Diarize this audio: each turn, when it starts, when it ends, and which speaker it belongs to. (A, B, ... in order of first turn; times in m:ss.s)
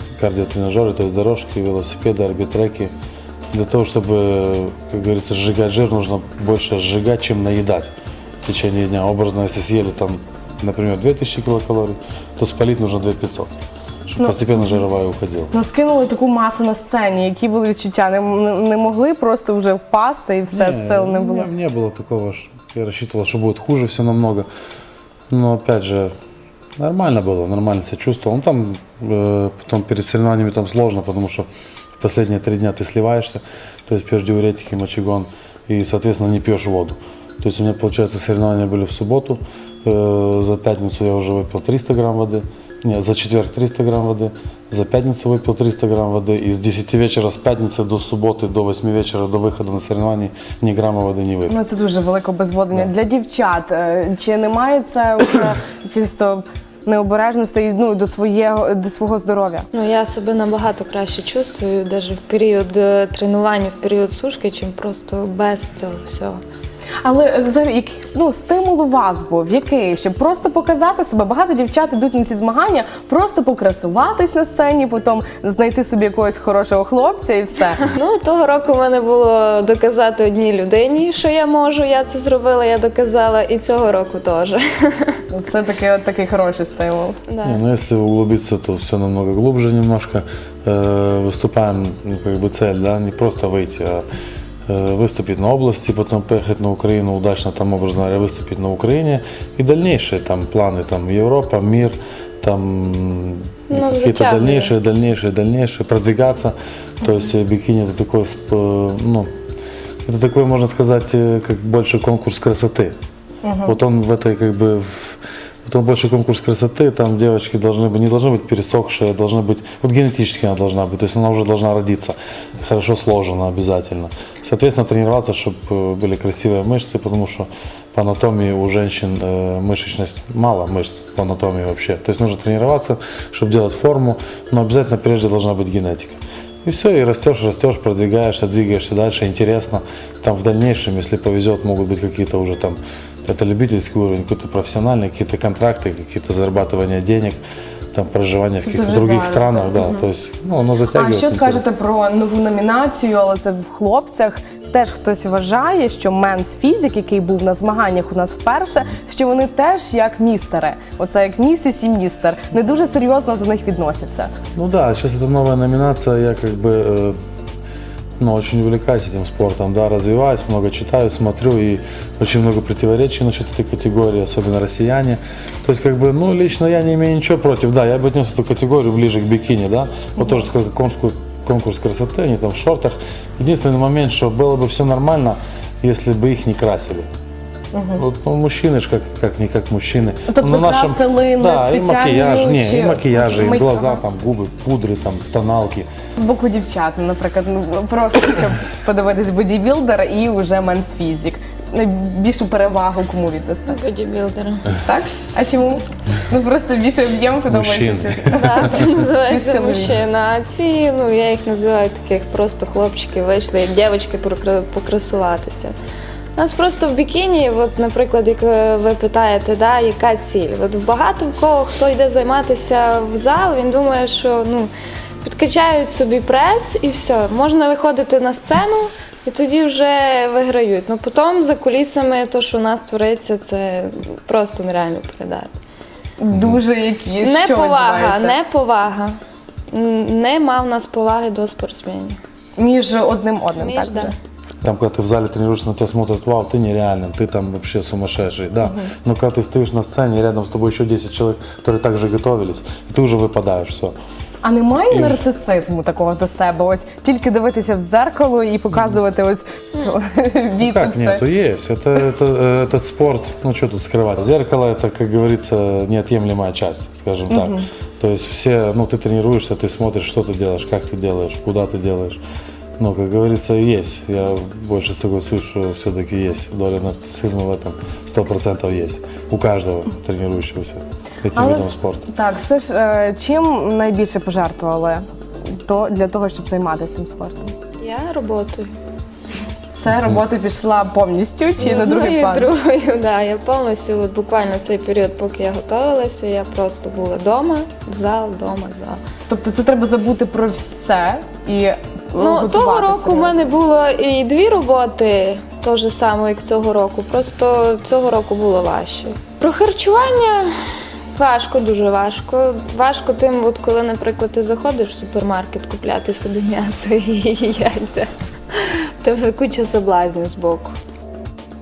0:00.2-0:02.9 A
0:03.5-0:07.9 A
0:08.4-0:15.5 A
0:14.2-0:14.7 B
0:15.5-0:21.5 B
0:20.5-0:24.5 A
0:25.3-0:26.1 A
0:26.8-0:31.5 A
0:32.0-0:51.6 A
0:51.5-0:59.7 B
0:59.7-1:06.4 C
1:07.0-1:17.8 B
1:17.9-1:25.1 C
1:25.3-1:27.2 B
1:27.3-1:27.6 C
1:27.4-1:34.0 A
1:34.7-1:49.3 A
1:43.7-1:44.7 C
1:50.1-1:53.0 A
1:53.4-1:53.8 B
1:53.6-2:27.4 A
2:27.9-2:31.6 A
2:28.7-2:30.0 B
2:30.9-2:44.3 B
2:44.6-2:47.2 A
2:48.2-3:07.1 A
3:00.2-3:00.4 B
3:07.7-3:08.0 B
3:08.0-3:15.9 A
3:10.3-3:14.0 B
3:16.2-3:23.8 B
3:23.7-3:24.6 C
3:24.8-3:29.9 B
3:27.5-3:28.8 A
3:28.3-3:35.8 C
3:36.4-3:44.7 C
3:45.2-3:55.6 C
3:56.2-3:58.4 B
3:56.3-3:56.6 A
3:57.2-3:59.1 C
3:59.7-4:02.2 C
4:02.6-4:04.1 B
4:03.6-4:04.1 C
4:04.6-4:14.0 A
4:08.6-4:08.9 B
4:14.4-4:21.2 B
4:14.9-4:15.2 A
4:18.7-4:19.0 A
4:20.6-4:32.2 A
4:27.3-4:27.7 B
4:32.8-4:42.0 A
4:41.4-4:47.5 B
4:47.8-4:48.7 C
4:49.7-4:52.5 B
4:51.6-4:59.0 C
4:59.3-5:03.4 B
5:02.2-5:10.5 C
5:11.2-5:20.7 C